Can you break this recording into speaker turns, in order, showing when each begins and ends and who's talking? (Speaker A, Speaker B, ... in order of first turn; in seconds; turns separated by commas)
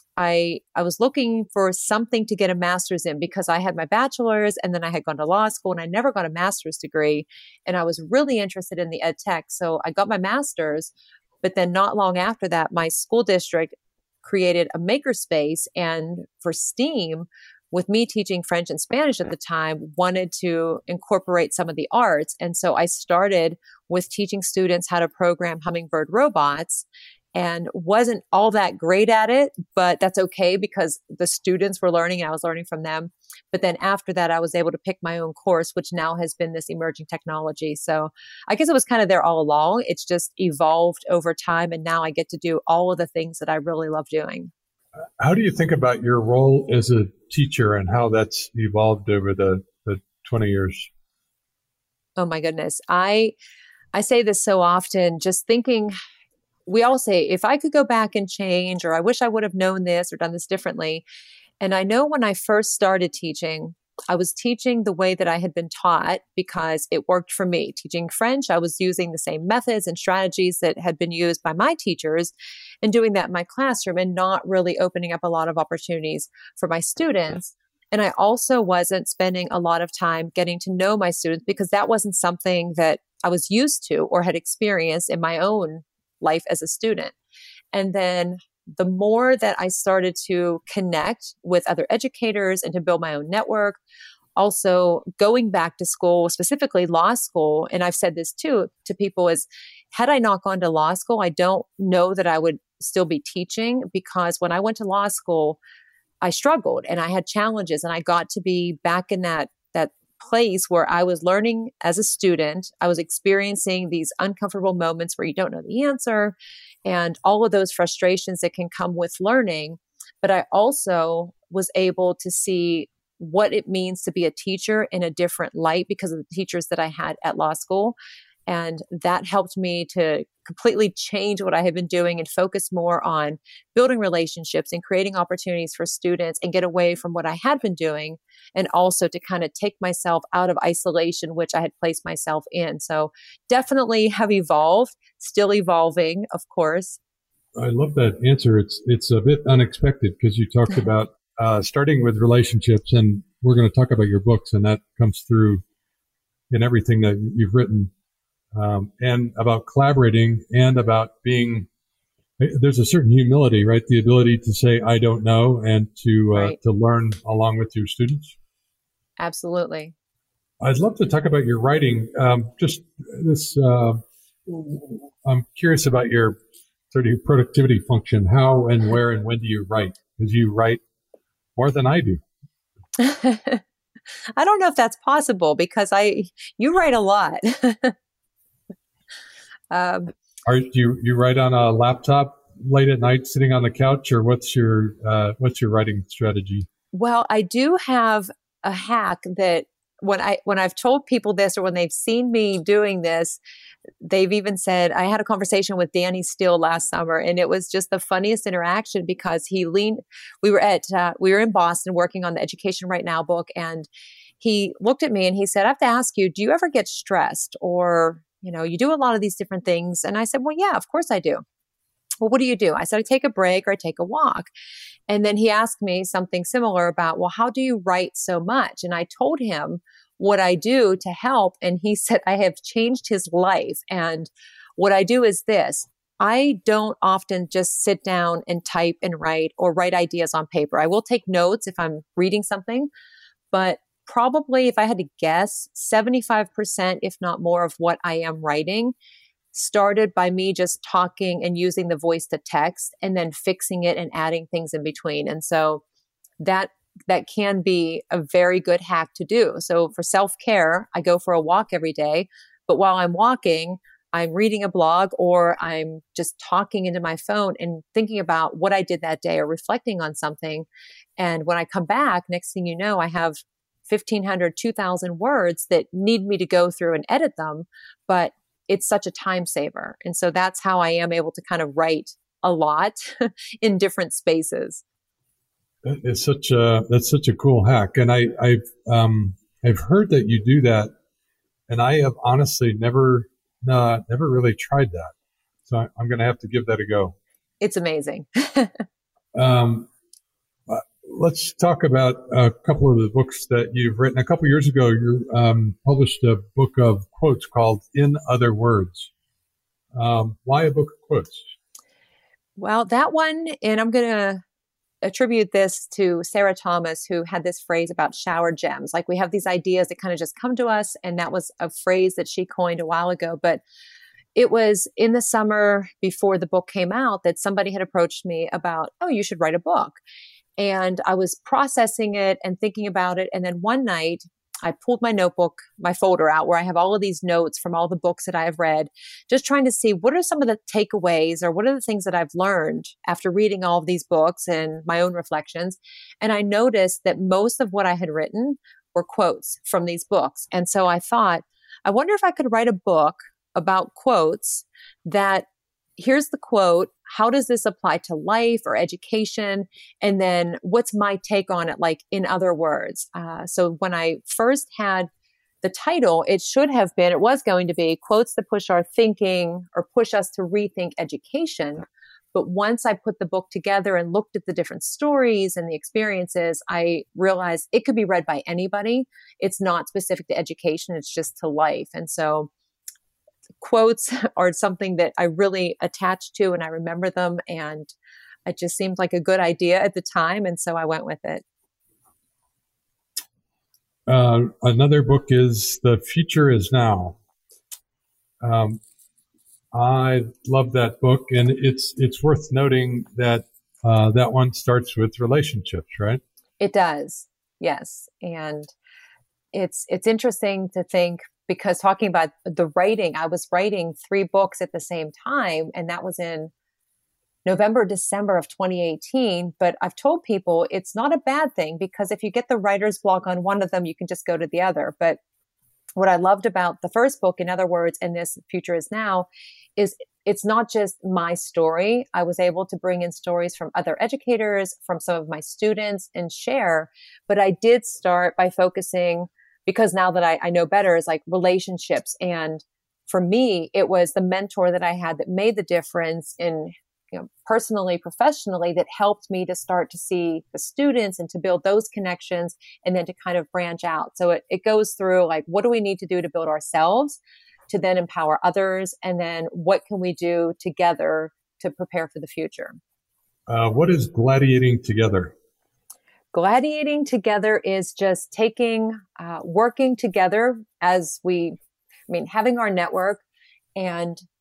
Speaker A: 0.2-44.5, Speaker B: 45.2-50.9, Speaker A: 52.2-53.3, Speaker A: 53.9-55.9, Speaker A: 56.7-61.0, Speaker A: 61.6-72.3, Speaker A: 72.8-87.1, Speaker A: 87.7-93.8, Speaker A: 94.3-105.6, Speaker A: 106.2-116.3, Speaker A: 116.8-127.9, Speaker A: 128.5-147.0, Speaker B: 147.6-155.6, Speaker B: 156.5-157.9, Speaker B: 158.5-161.7, Speaker B: 162.4-168.3, Speaker A: 169.2-169.9, Speaker B: 170.6-176.4, Speaker B: 176.9-180.8, Speaker B: 181.6-182.2, Speaker A: 183.0-183.6, Speaker A: 184.4-187.9, Speaker A: 189.7-190.1, Speaker B: 190.4-196.7, Speaker A: 196.9-203.4, Speaker A: 204.0-213.9, Speaker A: 214.4-221.4, Speaker A: 222.2-224.5, Speaker A: 225.1-242.9, Speaker A: 243.5-248.9, Speaker A: 249.5-255.8, Speaker A: 256.4-270.6, Speaker A: 271.2-284.8, Speaker B: 285.8-290.9, Speaker B: 291.7-295.1, Speaker B: 295.6-297.1, Speaker A: 297.6-298.8, Speaker B: 299.3-299.9, Speaker B: 300.7-309.1, Speaker B: 309.9-311.5, Speaker A: 312.6-314.4, Speaker A: 315.0-323.6, Speaker A: 324.4-330.0, Speaker A: 330.6-355.4, Speaker A: 356.0-365.1, Speaker A: 365.6-382.5, Speaker A: 383.6-387.9, Speaker A: 388.4-391.4, Speaker B: 394.1-397.2, Speaker B: 398.4-398.8, Speaker B: 399.7-406.2, Speaker A: 406.6-408.7, Speaker A: 409.5-416.5, Speaker A: 417.4-425.2, Speaker A: 426.0-462.8, Speaker B: 463.5-465.3, Speaker A: 466.3-471.6, Speaker A: 472.1-473.2, Speaker A: 473.8-474.2